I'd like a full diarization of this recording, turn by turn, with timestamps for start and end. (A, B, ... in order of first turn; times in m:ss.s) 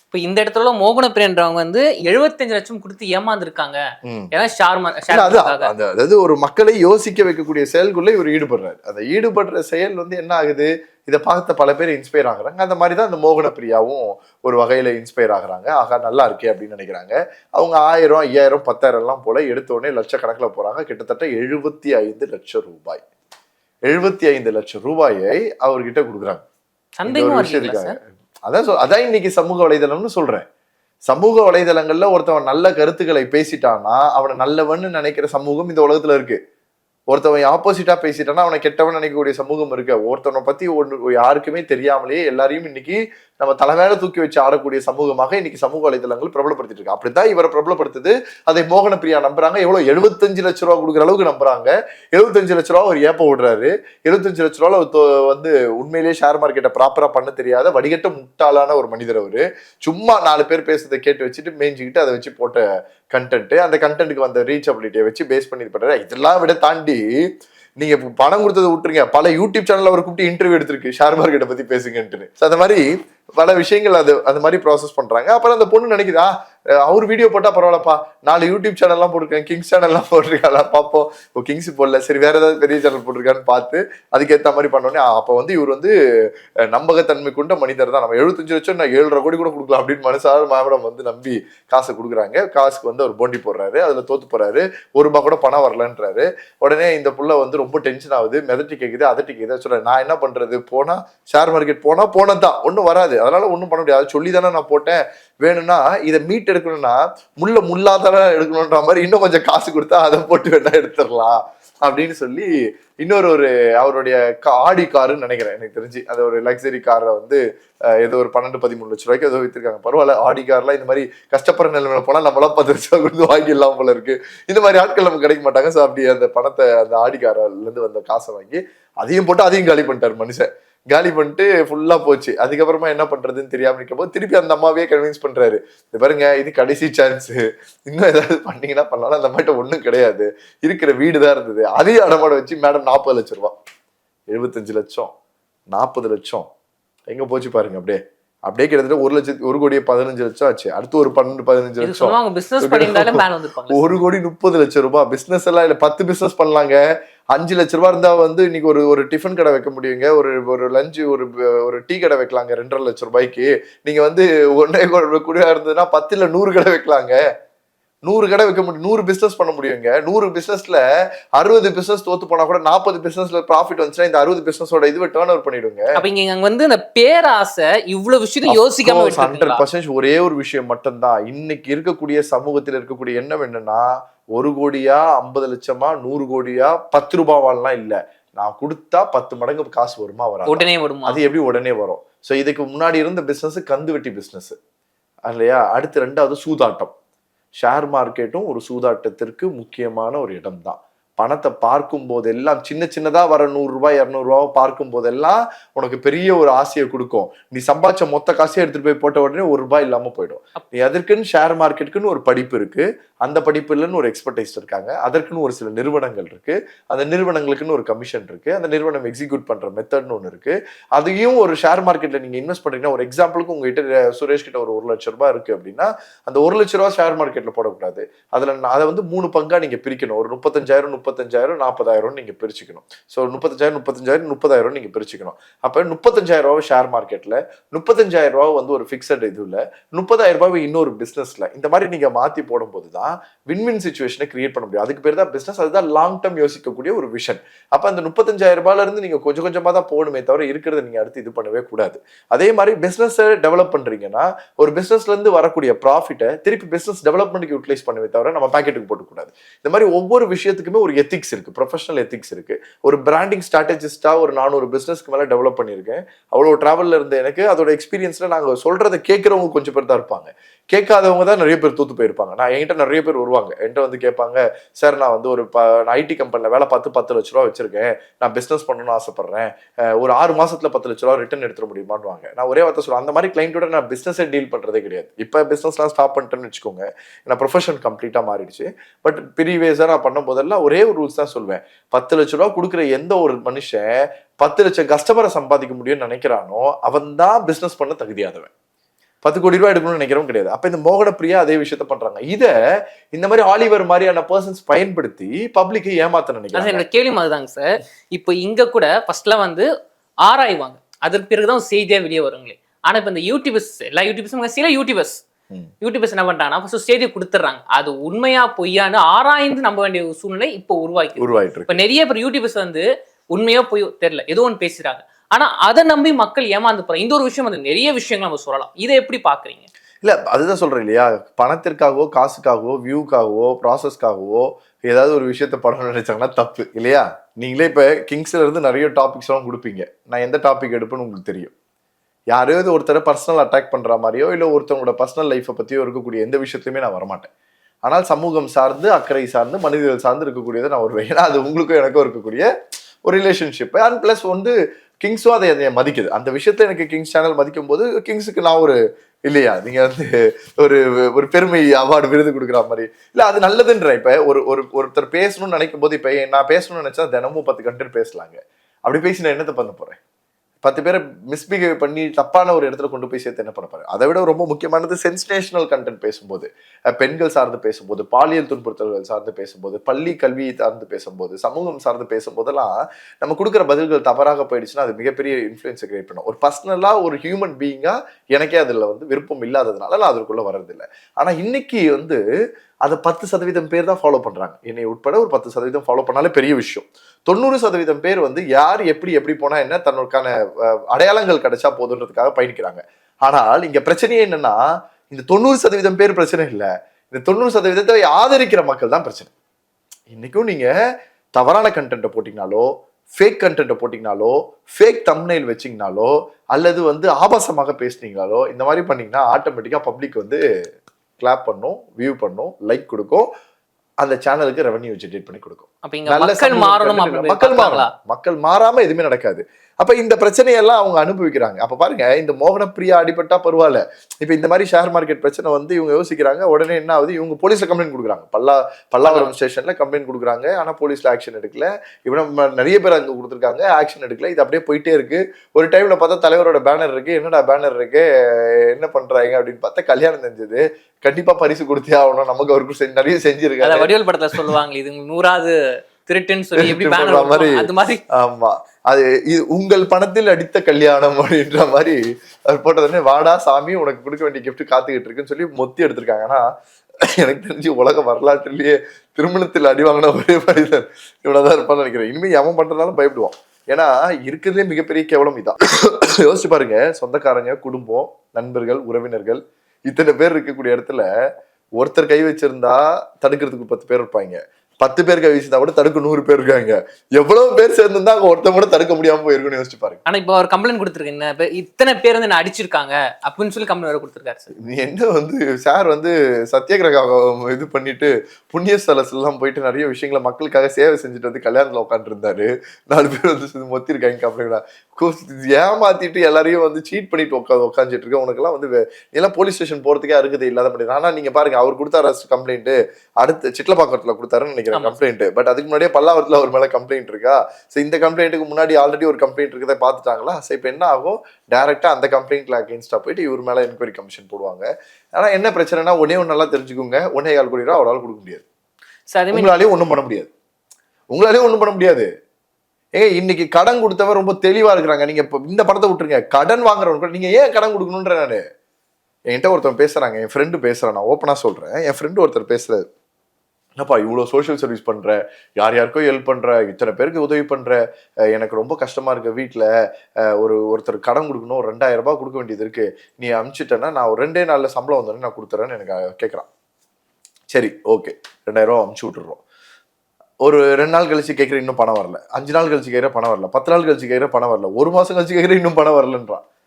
0:00.1-0:03.8 A
0:04.0-0:04.3 B
0:04.3-0:05.7 A
0:05.1-0:23.0 B
0:23.9-0:26.4 B
0:27.0-0:28.0 A
0:27.1-0:28.0 B
0:28.5-0:30.4 B
0:31.1-0:36.4 B
0:37.1-1:02.6 B
1:03.1-1:07.0 B
1:07.8-1:12.8 B
1:13.4-1:25.9 B
1:26.7-1:57.4 B
1:58.0-2:23.5 B
2:24.3-2:25.1 B
2:25.7-2:26.5 B
2:27.1-2:36.8 B
2:31.8-2:33.9 A
2:37.3-2:47.2 B
2:48.1-2:50.8 B
2:51.4-2:55.9 B
2:55.9-2:59.6 A
2:58.5-3:14.6 B
3:10.4-3:11.2 A
3:15.3-3:16.9 B
3:17.6-4:58.5 B
4:59.2-5:02.5 B
5:03.1-5:06.8 B
5:06.5-5:09.7 A
5:10.2-5:15.2 A
5:15.8-5:29.7 A
5:21.2-5:21.7 B
5:30.0-5:41.5 B
5:42.3-5:47.3 B
5:47.8-5:52.5 B
5:53.0-5:58.8 B
5:59.3-6:10.0 B
6:10.6-6:32.2 B
6:32.8-6:40.3 B
6:40.9-6:49.3 B
6:50.1-6:50.7 B
6:51.4-6:52.7 B
6:53.2-7:00.4 B
7:01.2-7:03.3 B
7:04.0-7:28.0 B
7:05.8-7:07.9 A
7:19.0-7:19.3 A
7:28.7-7:33.9 B
7:33.6-7:38.0 A
7:36.6-7:37.6 B
7:38.1-7:46.4 B
7:47.1-8:01.1 B
8:01.8-8:10.0 B
8:10.0-8:14.4 A
8:14.6-8:48.4 B
8:49.1-8:49.5 A
8:49.3-8:50.3 B
8:51.1-8:52.1 B
8:53.0-8:58.4 B
8:59.3-9:02.8 B
9:03.8-9:07.8 B
9:08.3-9:09.7 B
9:10.3-9:16.5 B
9:17.5-9:19.4 B
9:20.4-9:26.4 B